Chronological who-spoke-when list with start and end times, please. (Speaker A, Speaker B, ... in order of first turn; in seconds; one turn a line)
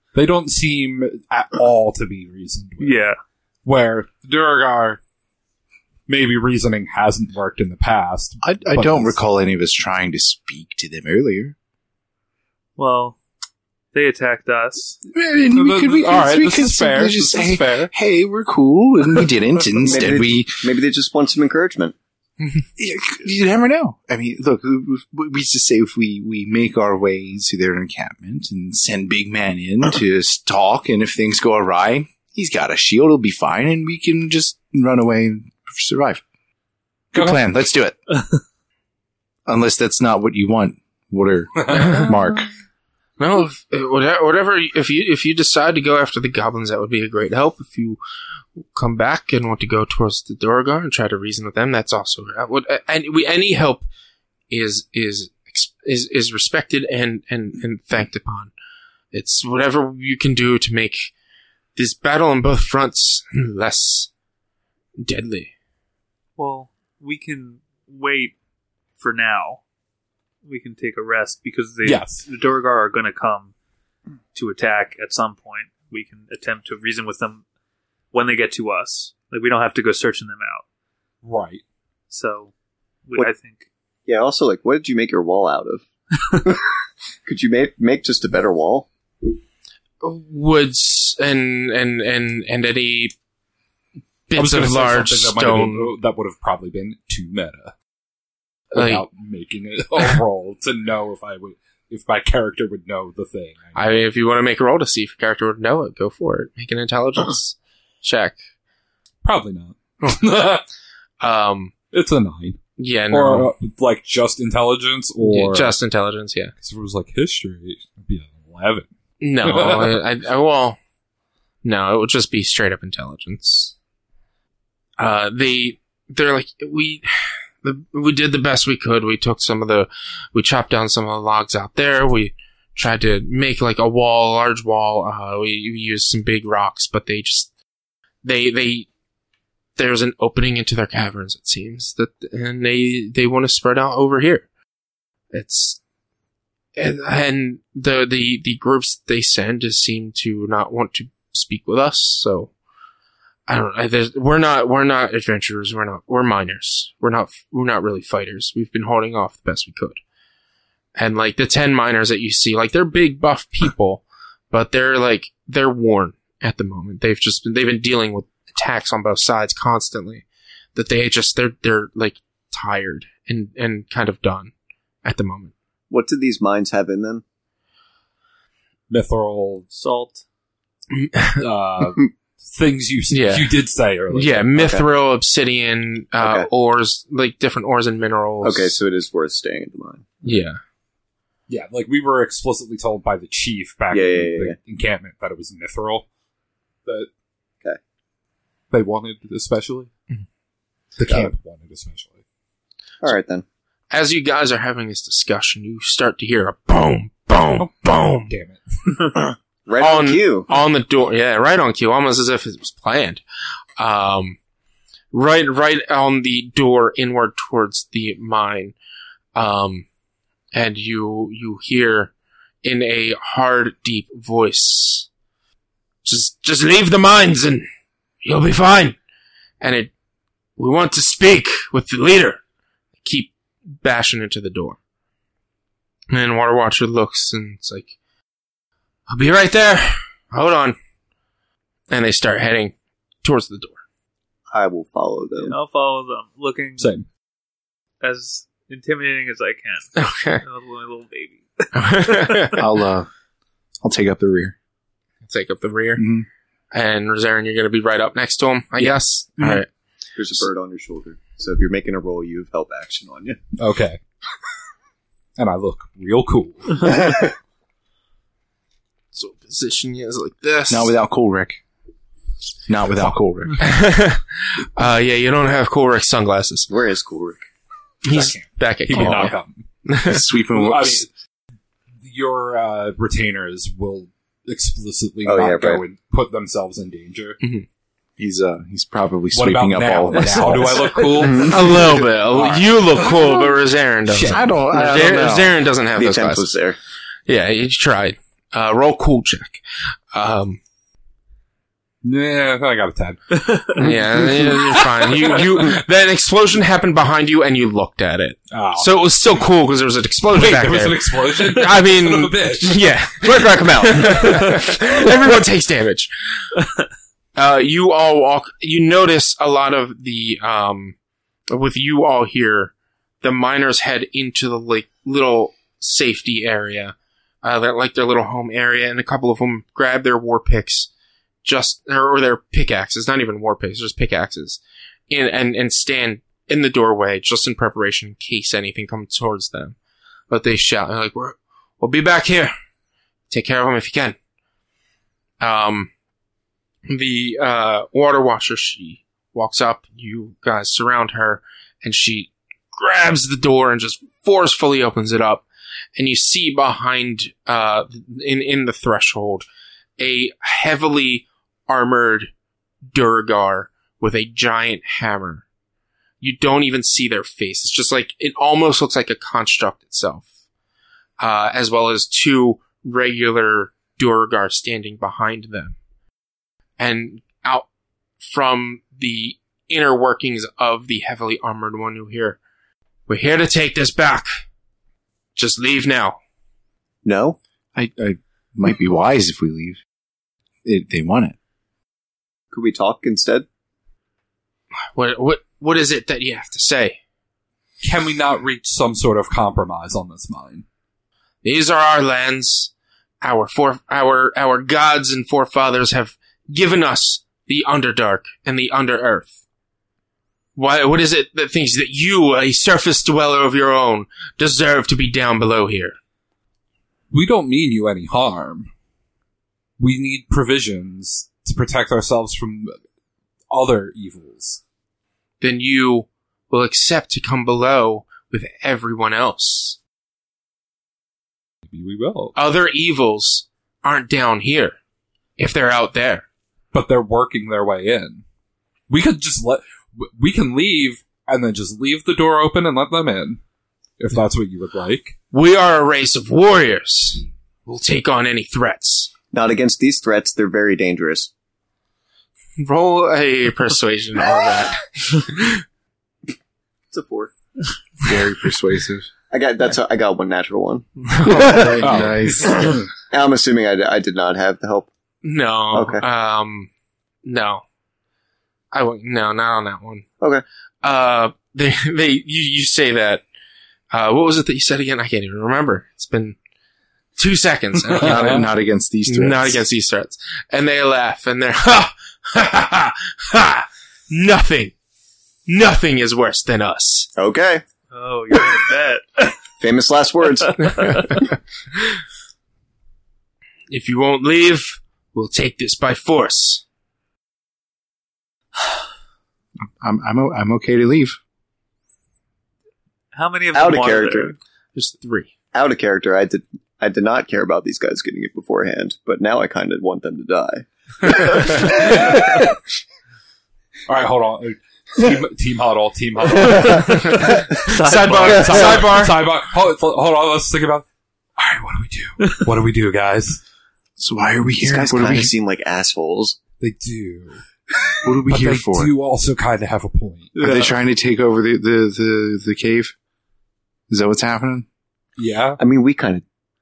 Speaker A: 0.1-3.0
Speaker B: 2.8-3.2
Speaker A: 3.6-5.0
Speaker A: 6.1-9.2
Speaker C: 8.4-11.6
Speaker B: 12.8-13.2
Speaker B: 13.9-15.0
Speaker C: 15.1-20.7
Speaker A: 15.6-17.9
Speaker D: 19.8-21.9
Speaker C: 22.8-36.2
Speaker C: 37.1-38.0
Speaker C: 39.5-42.5
Speaker A: 41.6-42.1
Speaker E: 41.8-42.1
Speaker E: 43.2-48.0
Speaker E: 48.7-53.9
Speaker E: 54.5-58.5
Speaker E: 59.1-61.1
Speaker E: 61.8-64.1
Speaker E: 65.0-65.5
Speaker B: 66.4-68.3
Speaker B: 69.0-69.6
Speaker B: 70.5-73.5
Speaker A: 71.8-72.2
Speaker B: 74.3-77.4
Speaker B: 78.1-80.6
Speaker A: 81.2-81.6
Speaker B: 82.1-82.5
Speaker B: 83.1-83.7
Speaker D: 84.1-86.7
Speaker D: 87.3-88.9
Speaker E: 90.0-93.1
Speaker E: 94.3-95.9
Speaker A: 94.3-97.7
Speaker A: 98.7-104.0
Speaker E: 98.7-99.0
Speaker E: 103.8-108.4
Speaker A: 109.2-110.6
Speaker E: 111.2-111.7
Speaker A: 111.9-115.8
Speaker E: 112.8-113.5
Speaker E: 115.2-116.5
Speaker A: 116.6-118.9
Speaker E: 119.2-120.8
Speaker A: 119.4-120.0
Speaker E: 121.6-123.7
Speaker E: 125.0-127.0
Speaker E: 127.6-137.5
Speaker E: 138.2-138.9
Speaker E: 139.8-144.5
Speaker E: 145.3-145.8
Speaker E: 146.8-152.5
Speaker E: 153.5-160.0
Speaker E: 161.0-174.5
Speaker E: 175.0-175.5
Speaker D: 175.9-177.2
Speaker A: 178.9-179.7
Speaker B: 179.7-180.2
Speaker E: 180.9-181.4
Speaker A: 181.4-184.6
Speaker E: 183.1-183.5
Speaker E: 184.1-188.8
Speaker D: 184.6-184.8
Speaker D: 186.2-186.5
Speaker D: 188.4-190.2
Speaker E: 190.2-190.6
Speaker A: 191.5-196.1
Speaker D: 193.9-194.6
Speaker A: 198.7-199.9
Speaker A: 201.0-202.2
Speaker D: 203.0-203.4
Speaker E: 203.9-208.3
Speaker A: 208.3-209.1
Speaker D: 209.7-210.5
Speaker E: 209.8-213.2
Speaker E: 213.8-214.4
Speaker E: 215.1-218.8
Speaker E: 219.3-219.9
Speaker E: 220.5-222.1
Speaker E: 222.6-225.1
Speaker E: 226.0-227.7
Speaker E: 228.2-229.0
Speaker E: 229.6-229.9
Speaker E: 230.6-232.4
Speaker E: 233.0-234.8
Speaker E: 236.1-237.9
Speaker E: 239.1-240.8
Speaker E: 241.9-243.8
Speaker D: 244.5-245.6
Speaker B: 245.4-246.9
Speaker A: 246.8-247.1
Speaker B: 248.0-252.5
Speaker E: 250.0-250.4
Speaker E: 251.7-252.6
Speaker C: 252.6-253.1
Speaker C: 253.8-254.6
Speaker E: 255.3-256.0
Speaker C: 256.0-256.3
Speaker E: 256.7-259.7
Speaker D: 260.2-263.4
Speaker A: 263.6-264.0
Speaker A: 265.4-267.2
Speaker E: 269.1-270.9
Speaker C: 270.7-271.6
Speaker C: 272.7-273.6
Speaker E: 273.6-276.7
Speaker D: 276.7-277.4
Speaker E: 278.1-280.2
Speaker A: 278.1-279.6
Speaker D: 279.0-279.3
Speaker C: 280.1-281.1
Speaker A: 280.5-281.1
Speaker A: 282.0-287.4
Speaker D: 285.2-285.8
Speaker C: 288.2-291.1
Speaker A: 289.3-293.4
Speaker D: 290.4-291.8
Speaker E: 291.4-296.5
Speaker A: 294.1-294.5
Speaker C: 294.2-295.5
Speaker D: 296.0-296.8
Speaker E: 297.3-299.6
Speaker E: 300.1-300.6
Speaker A: 302.0-305.7
Speaker E: 303.8-316.1
Speaker A: 308.5-308.9
Speaker A: 310.3-312.9
Speaker D: 312.8-314.8
Speaker E: 317.4-321.0
Speaker E: 321.5-330.9
Speaker E: 331.4-339.8
Speaker E: 340.3-342.5
Speaker E: 343.3-344.2
Speaker E: 345.4-345.9
Speaker E: 346.9-355.4
Speaker E: 356.0-359.5
Speaker E: 360.0-362.3
Speaker E: 362.9-365.4
Speaker E: 366.2-370.3
Speaker E: 371.2-375.8
Speaker E: 376.8-377.7
Speaker E: 378.2-382.4
Speaker E: 383.1-384.3
Speaker E: 385.4-386.2
Speaker D: 387.1-387.4
Speaker C: 387.8-389.8
Speaker C: 390.6-391.4
Speaker D: 392.5-393.5
Speaker E: 394.9-397.0
Speaker A: 397.8-400.6
Speaker E: 401.4-409.3
Speaker E: 410.6-416.0
Speaker A: 417.1-418.7
Speaker A: 419.8-422.8
Speaker A: 423.5-424.6
Speaker E: 425.4-429.8
Speaker A: 431.7-432.4
Speaker E: 432.4-434.8
Speaker E: 435.4-436.3
Speaker A: 436.7-438.2
Speaker A: 438.9-443.4
Speaker A: 444.0-445.1
Speaker E: 445.3-449.1
Speaker D: 449.3-451.3
Speaker E: 452.6-455.6
Speaker D: 456.9-457.3
Speaker C: 458.0-459.1
Speaker D: 459.3-460.9
Speaker E: 461.2-461.6
Speaker C: 461.2-462.8
Speaker A: 461.8-462.8
Speaker D: 463.1-464.9
Speaker E: 465.2-466.7
Speaker D: 465.7-466.0
Speaker E: 467.2-467.6
Speaker E: 468.7-470.1
Speaker E: 470.8-473.2
Speaker E: 473.9-476.4
Speaker E: 477.2-478.5
Speaker C: 478.0-479.6
Speaker A: 478.0-478.4
Speaker E: 479.1-484.7
Speaker E: 485.5-487.1
Speaker D: 487.2-487.6
Speaker B: 487.9-489.4
Speaker D: 489.6-491.2
Speaker E: 493.7-496.6
Speaker C: 499.8-501.2
Speaker B: 503.1-504.4
Speaker D: 503.5-504.4
Speaker E: 504.8-505.3
Speaker D: 505.5-512.6
Speaker A: 513.9-523.4
Speaker B: 517.6-518.8
Speaker E: 517.8-519.1
Speaker C: 524.0-525.3
Speaker D: 524.6-526.4
Speaker A: 526.6-527.4
Speaker C: 528.0-528.9
Speaker A: 528.2-530.3
Speaker B: 530.4-530.8
Speaker C: 530.4-532.9
Speaker C: 533.9-534.7
Speaker A: 535.2-535.6
Speaker D: 535.6-536.2